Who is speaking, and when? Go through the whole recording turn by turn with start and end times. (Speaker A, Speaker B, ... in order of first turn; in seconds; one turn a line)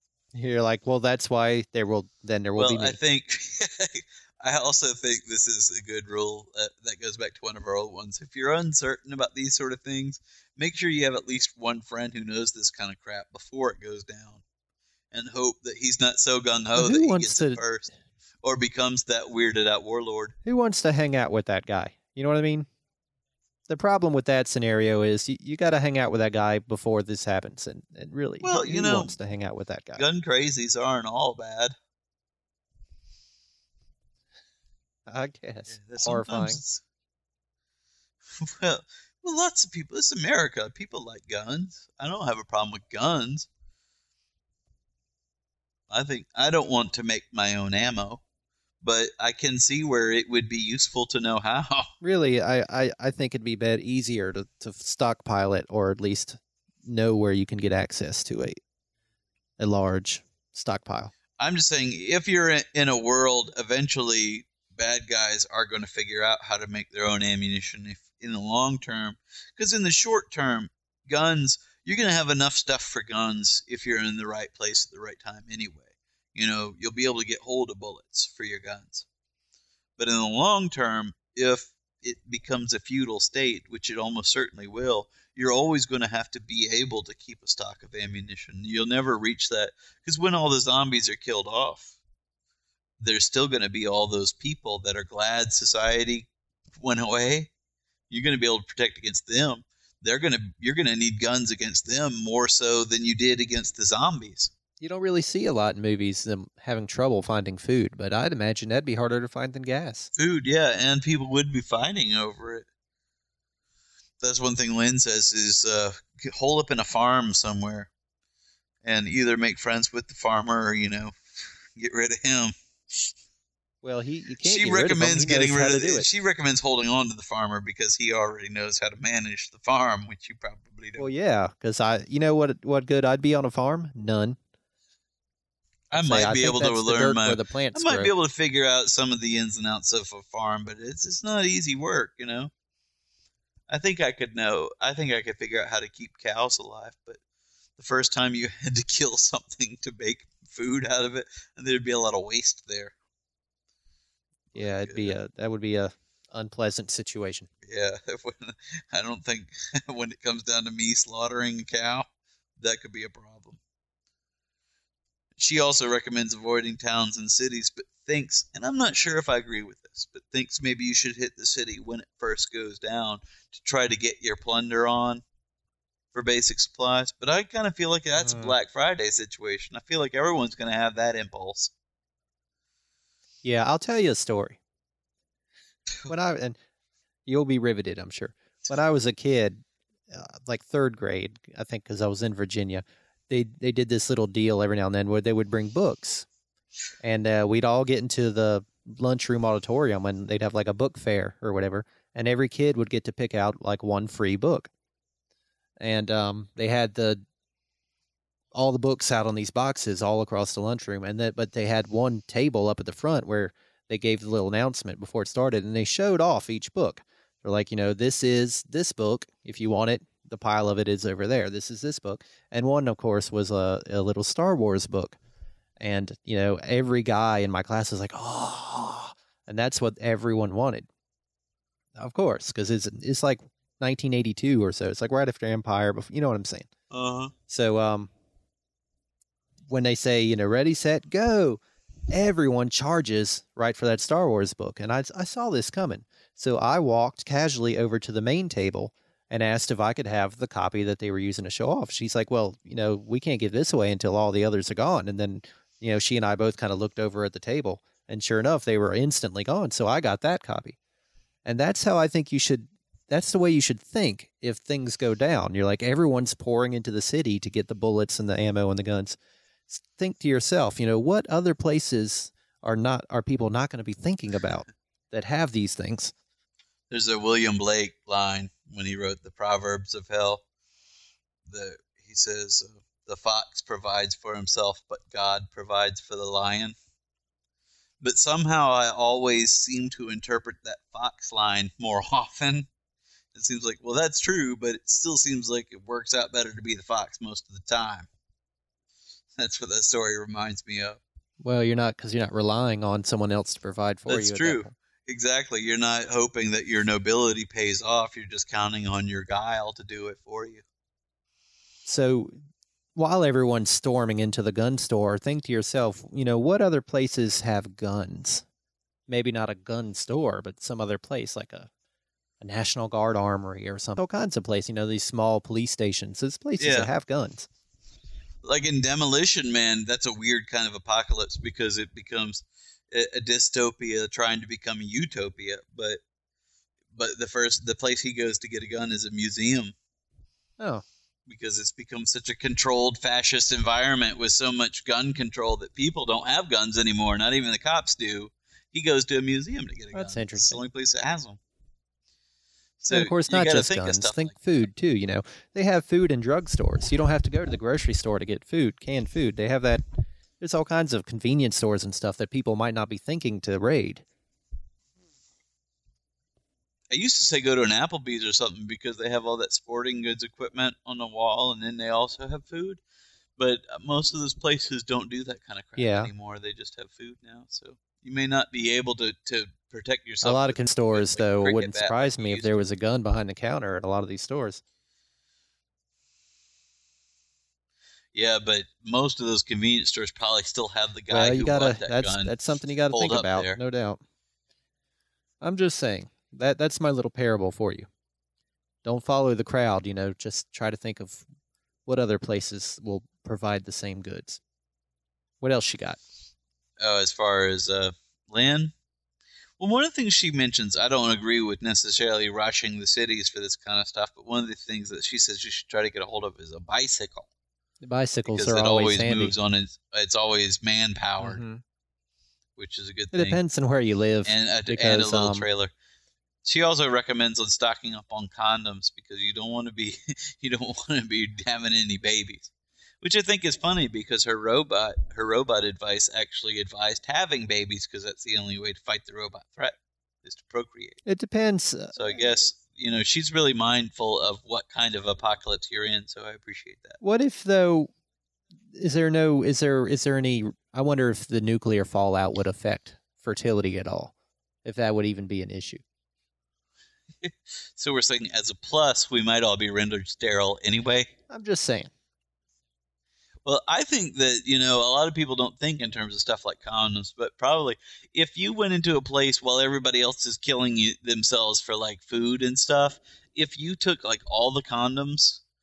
Speaker A: 0.3-3.0
Speaker B: 2.6-14.4
Speaker B: 15.1-17.9
Speaker A: 16.8-17.6
Speaker B: 18.4-20.4
Speaker A: 20.4-22.7
Speaker A: 23.7-30.1
Speaker B: 28.4-29.1
Speaker B: 30.0-31.8
Speaker A: 35.1-36.6
Speaker B: 35.7-36.8
Speaker B: 38.4-43.5
Speaker B: 45.9-48.2
Speaker B: 48.8-51.9
Speaker A: 52.0-58.6
Speaker A: 59.6-61.1
Speaker B: 61.4-79.1
Speaker B: 80.0-92.0
Speaker B: 93.0-97.5
Speaker B: 98.1-104.5
Speaker A: 104.8-110.1
Speaker B: 110.2-112.7
Speaker B: 114.2-117.9
Speaker B: 118.8-121.2
Speaker B: 121.8-123.1
Speaker A: 123.8-126.1
Speaker B: 124.4-131.1
Speaker A: 131.0-134.4
Speaker B: 135.9-142.5
Speaker A: 135.9-138.1
Speaker B: 143.7-147.2
Speaker B: 147.8-152.9
Speaker B: 154.5-155.2
Speaker A: 154.6-157.5
Speaker B: 157.7-162.1
Speaker B: 162.6-163.6
Speaker B: 165.4-175.2
Speaker B: 176.1-181.7
Speaker A: 178.2-178.6
Speaker A: 183.4-184.6
Speaker A: 186.1-186.6
Speaker A: 187.3-196.3
Speaker A: 197.0-204.7
Speaker A: 205.8-207.2
Speaker A: 208.5-225.2
Speaker A: 225.8-230.9
Speaker A: 232.0-236.7
Speaker B: 236.9-237.3
Speaker A: 237.5-238.1
Speaker A: 239.7-260.8
Speaker A: 261.4-269.2
Speaker A: 269.7-276.1
Speaker B: 276.9-280.4
Speaker B: 281.5-286.8
Speaker B: 288.0-292.7
Speaker B: 293.3-298.1
Speaker B: 299.4-301.0
Speaker A: 301.4-304.7
Speaker B: 304.1-310.6
Speaker A: 311.9-312.4
Speaker A: 312.9-318.4
Speaker A: 319.1-321.7
Speaker A: 322.4-327.5
Speaker B: 326.6-326.9
Speaker B: 328.4-336.0
Speaker B: 336.9-339.8
Speaker A: 340.6-340.9
Speaker B: 341.3-351.4
Speaker A: 349.9-350.6
Speaker B: 352.8-354.4
Speaker A: 352.9-359.8
Speaker A: 360.4-364.0
Speaker B: 366.9-372.8
Speaker B: 373.4-382.6
Speaker A: 375.8-376.1
Speaker A: 380.2-384.6
Speaker B: 388.1-392.4
Speaker A: 391.1-394.0
Speaker B: 392.9-393.6
Speaker A: 395.4-397.9
Speaker A: 398.8-401.3
Speaker A: 401.9-404.4
Speaker A: 405.4-406.0
Speaker B: 406.8-408.7
Speaker B: 409.6-417.3
Speaker A: 417.8-419.4
Speaker B: 418.3-421.4
Speaker A: 421.2-421.6
Speaker B: 422.6-423.4
Speaker A: 423.1-425.5
Speaker B: 424.2-425.7
Speaker B: 426.4-432.5
Speaker B: 433.0-441.0
Speaker A: 441.1-442.3
Speaker B: 441.9-447.0
Speaker A: 447.0-447.9
Speaker A: 448.7-454.1
Speaker A: 454.6-455.8
Speaker B: 457.2-461.1
Speaker A: 461.3-461.9
Speaker B: 463.4-475.4